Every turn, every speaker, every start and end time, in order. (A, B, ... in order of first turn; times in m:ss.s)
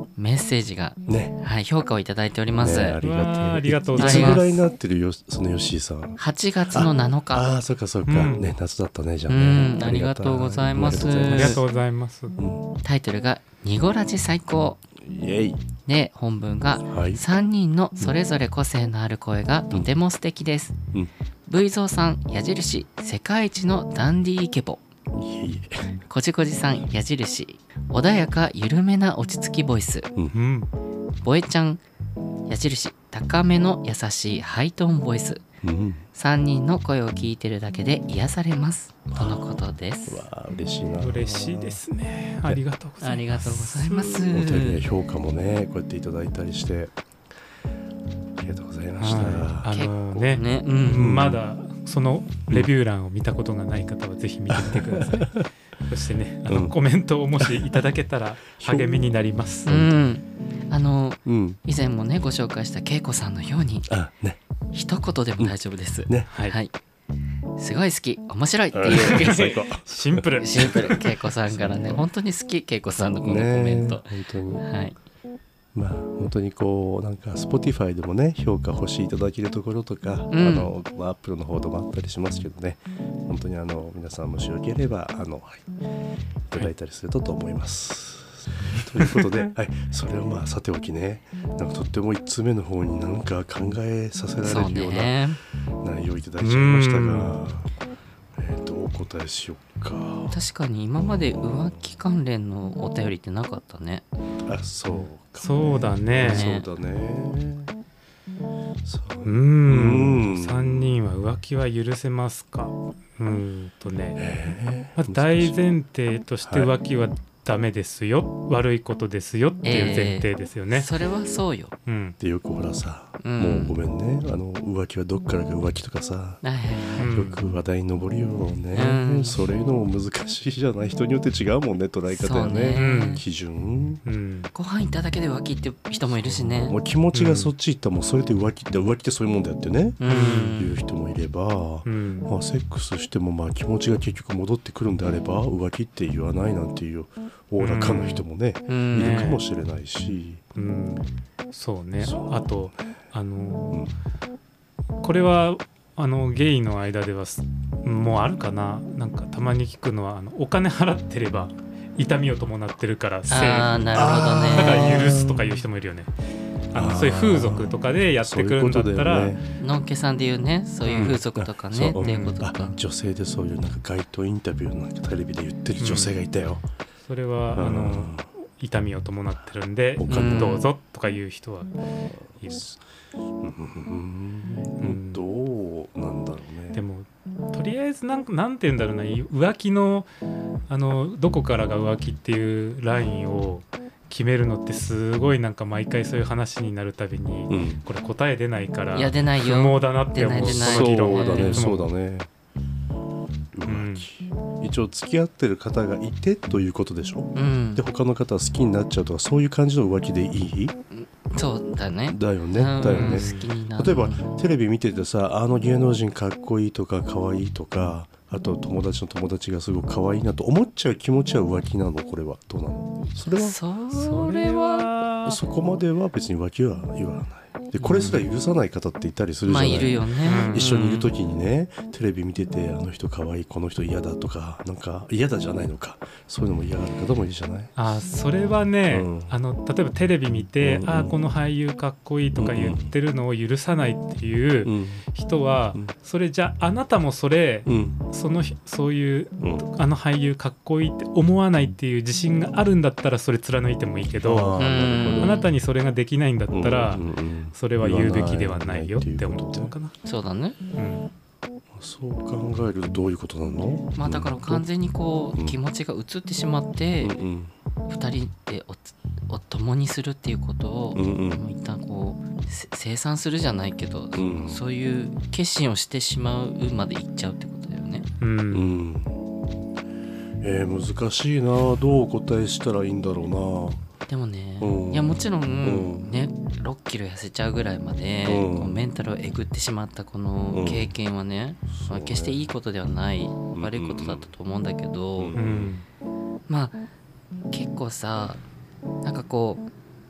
0:00.2-0:03.0 A
0:01.1-0:01.4 B
0:02.6-0:06.2 B
0:03.0-0:04.6 C
0:04.0-0:04.4 A
0:06.2-0:07.6 A
0:06.7-0:11.6 B
0:08.1-0:08.4 C
0:09.3-0:11.6 A
0:11.3-0:12.4 C
0:12.4-0:12.7 B
0:12.8-0:14.8 A
0:15.0-0:15.6 B
0:15.9-0:20.8 A
0:16.8-0:17.2 B
0:21.5-0:24.8 A
0:25.1-0:26.0 B
0:26.1-0:30.1 A
0:30.3-0:30.7 C
0:31.2-0:31.8 A
0:32.5-0:35.4 A
0:35.6-0:36.0 B
0:36.1-0:40.2 A
0:39.1-0:39.5 B
0:40.1-0:41.8 B
0:41.0-0:44.3 C
0:43.0-0:44.8 A
0:44.2-0:46.9 B
0:48.4-0:49.8 B
0:49.0-0:59.9 C
0:49.7-0:51.1 A
0:50.9-0:51.4 B
0:54.5-0:55.5 B
0:56.5-0:56.7 B
0:57.4-0:57.8 B
0:58.6-0:58.9 B
0:59.6-1:03.9 A
1:01.2-1:01.6 B
1:03.9-1:04.4 B
1:04.7-1:06.7 A
1:06.3-1:06.6 C
1:07.6-1:09.6 A
1:08.7-1:12.0 B
1:08.9-1:11.0 C
1:10.4-1:14.1 A
1:13.2-1:14.6 B
1:14.6-1:15.0 A
1:15.7-1:25.6 B
1:20.3-1:20.7 A
1:26.5-1:35.2 B
1:29.0-1:29.3 C
1:34.4-1:35.4 A
1:35.8-1:37.7 B
1:36.4-1:37.4 C
1:38.4-1:40.4 B
1:40.3-1:44.0 A
1:41.0-1:41.9 B
1:44.4-1:47.7 B
1:45.4-1:46.5 C
1:46.2-1:46.7 A
1:48.8-1:50.9 B
1:49.2-1:54.2 C
1:54.2-1:55.6 B
1:55.0-2:00.9 C
1:56.4-1:56.7 B
1:59.6-2:01.8 A
2:01.9-2:02.2 C
2:02.2-2:06.4 B
2:03.2-2:03.7 A
2:06.4-2:07.1 A
2:07.0-2:07.4 C
2:07.1-2:14.0 B
2:08.7-2:09.4 A
2:12.1-2:13.2 A
2:12.7-2:13.2 C
2:14.0-2:14.5 C
2:14.5-2:16.8 A
2:16.1-2:30.4 B
2:17.1-2:17.5 C
2:20.0-2:20.8 A
2:20.0-2:20.6 C
2:21.8-2:22.3 C
2:27.6-2:28.2 C
2:28.7-2:29.2 A
2:28.9-2:29.4 C
2:30.6-2:33.8 C
2:32.0-2:32.7 B
2:35.0-2:46.1 C
2:43.3-2:45.1 A
2:43.9-2:45.6 B
2:46.7-2:49.4 C
2:46.7-2:49.4 B
2:49.6-2:52.8 A
2:50.9-2:51.2 C
2:50.9-2:56.6 B
2:52.0-2:52.4 C
2:55.8-2:56.1 C
2:57.0-3:01.7 C
2:57.5-2:58.3 B
3:00.0-3:00.6 B
3:00.1-3:00.7 A
3:02.3-3:02.8 B
3:02.4-3:02.7 C
3:03.4-3:06.8 B
3:04.8-3:05.2 C
3:06.7-3:10.1 C
3:10.7-3:21.9 C
3:17.5-3:17.8 B
3:18.9-3:21.7 A
3:20.4-3:22.3 B
3:23.5-3:30.7 B
3:23.6-3:24.1 C
3:27.4-3:27.8 A
3:30.9-3:34.4 A
3:32.1-3:43.6 B
3:32.8-3:33.5 C
3:43.2-3:44.9 A
3:43.9-3:45.4 C
3:45.2-3:57.7 B
3:47.8-3:48.2 A
3:49.5-3:51.1 A
3:50.2-3:50.6 C
3:57.8-4:14.7 C
3:58.9-3:59.3 B
4:00.6-4:01.2 B
4:02.4-4:02.9 B
4:04.6-4:05.0 B
4:07.6-4:08.0 B
4:09.4-4:09.6 B
4:14.2-4:15.4 B
4:14.6-4:15.5 A
4:15.2-4:19.9 C
4:16.5-4:19.7 B
4:20.0-4:20.6 A
4:20.8-4:21.1 C
4:21.7-4:24.7 B
4:23.9-4:27.2 A
4:27.0-4:27.5 B
4:27.9-4:38.1 A
4:30.9-4:31.4 B
4:34.1-4:34.6 B
4:38.2-4:38.8 C
4:38.5-4:39.2 B
4:40.4-4:43.8 B
4:44.1-4:55.4 A
4:44.6-4:46.1 B
4:48.2-4:48.8 B
4:50.5-4:50.9 B
4:51.7-4:52.5 B
4:53.5-4:54.3 B
4:55.2-4:55.7 B
4:55.4-4:55.8 C
4:56.5-4:56.8 A
4:57.5-4:58.4 A
4:59.0-4:59.7 A